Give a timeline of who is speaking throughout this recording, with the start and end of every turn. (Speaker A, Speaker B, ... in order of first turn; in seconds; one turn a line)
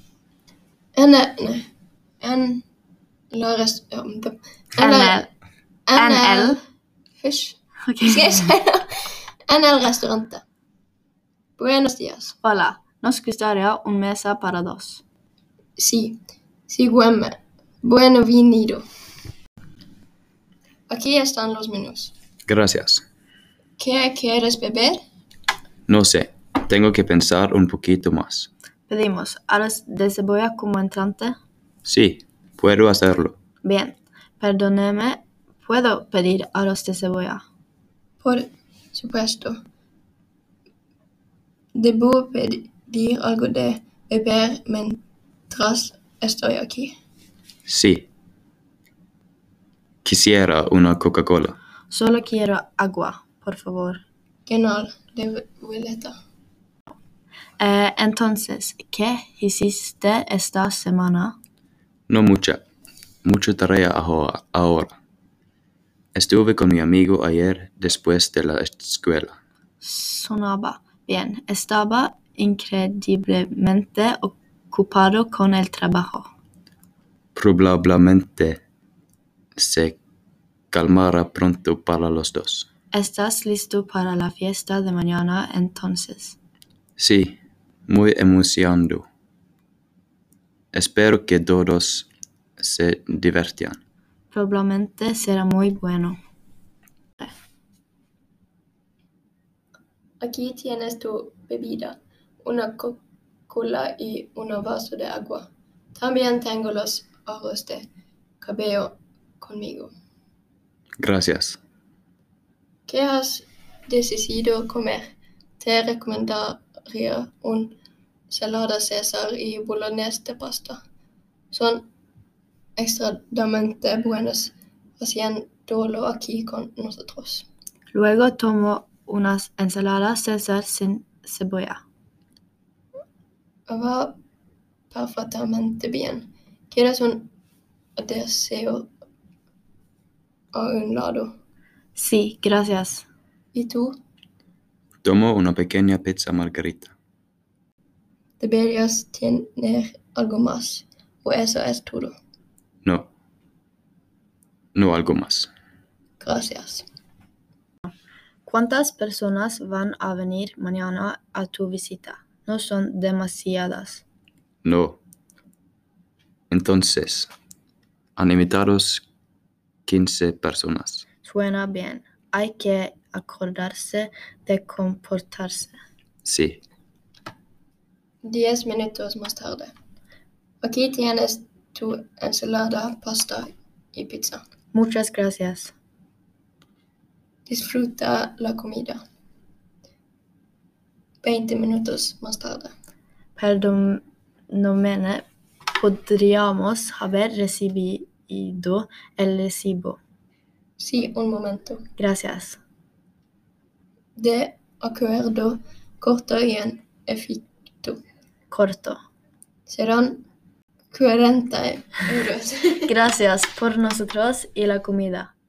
Speaker A: 1.0-1.7
Speaker A: 2.2-2.6
Speaker A: 3.3-5.3
Speaker B: 4.8-5.3
Speaker A: 5.9-6.6
Speaker B: 6.0-6.6
Speaker A: 7.2-8.9
Speaker B: 7.9-8.5
Speaker A: 9.5-10.4
Speaker A: 11.6-12.4
Speaker B: 12.4-15.0
Speaker A: 15.8-18.8
Speaker A: 20.9-22.1
Speaker C: 22.5-23.0
Speaker A: 23.8-25.0
Speaker C: 25.9-28.5
Speaker B: 28.9-31.4
Speaker C: 31.9-33.4
Speaker B: 33.6-37.5
Speaker A: 38.2-39.6
Speaker A: 41.8-47.0
Speaker C: 47.7-48.1
Speaker C: 50.0-51.6
Speaker B: 51.9-54.0
Speaker A: 54.5-56.2
Speaker B: 57.6-61.4
Speaker C: 62.1-62.6
Speaker C: 63.2-65.0
Speaker C: 66.2-69.4
Speaker B: 69.8-76.3
Speaker C: 77.4-78.6
Speaker C: 79.6-80.0
Speaker C: 80.7-82.7
Speaker B: 82.9-86.4
Speaker C: 87.0-89.0
Speaker C: 90.7-92.1
Speaker C: 92.6-93.8
Speaker B: 94.3-96.2
Speaker A: 100.2-107.9
Speaker A: 108.4-109.9
Speaker C: 111.0-111.6
Speaker A: 112.9-117.8
Speaker A: 118.3-120.8
Speaker A: 121.5-121.9
Speaker A: 122.8-127.5
Speaker B: 127.9-131.8
Speaker A: 133.7-134.2
Speaker A: 134.9-137.3
Speaker A: 138.0-138.9
Speaker A: 140.5-141.4
Speaker B: 141.9-143.1
Speaker A: 143.5-144.0
Speaker C: 145.0-146.9
Speaker A: 148.4-152.2
Speaker C: 154.8-155.5
Speaker A: 156.2-156.9
Speaker B: 158.4-164.1
Speaker C: 164.7-165.0
Speaker C: 166.5-167.3
Speaker C: 168.2-169.0
Speaker C: 169.9-171.1
Speaker B: 171.2-175.8
Speaker C: 176.2-176.6
Speaker A: 178.2-179.7
Speaker A: 180.6-184.4
Speaker B: 184.7-185.7
Speaker A: 187.5-189.0
Speaker A: 191.2-192.7
Speaker B: 193.4-200.0
Speaker A: 200.8-201.8
Speaker B: 202.0-202.6
Speaker A: 204.2-208.0
Speaker B: 208.5-209.0
Speaker A: 209.7-210.2
Speaker A: 210.9-212.9
Speaker B: 212.9-215.3